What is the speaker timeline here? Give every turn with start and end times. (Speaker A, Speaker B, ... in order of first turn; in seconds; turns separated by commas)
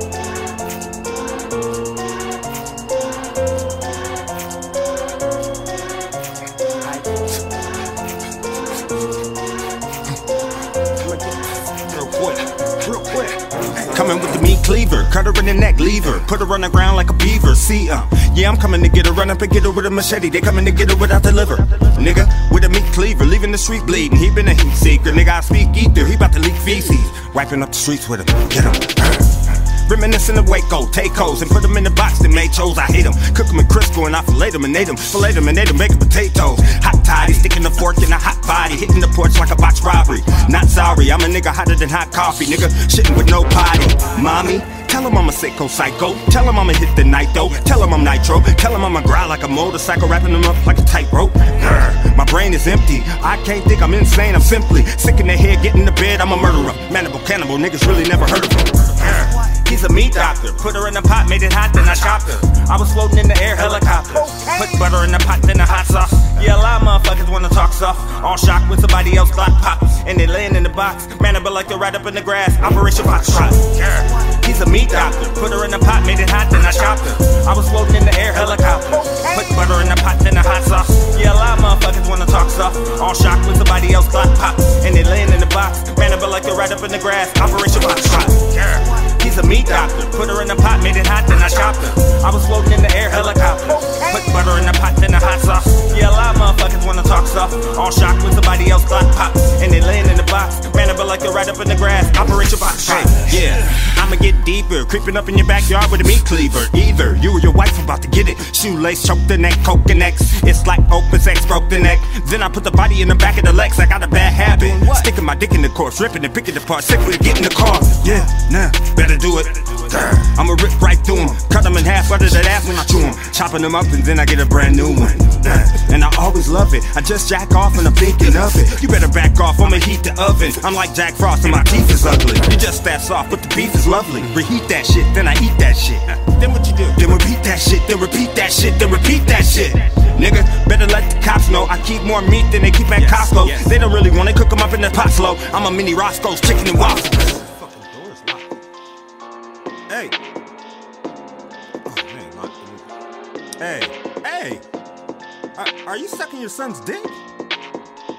Speaker A: 11.0-148.4, Speaker A: 151.8-152.8, Speaker A: 153.6-154.6, Speaker A: 155.6-157.1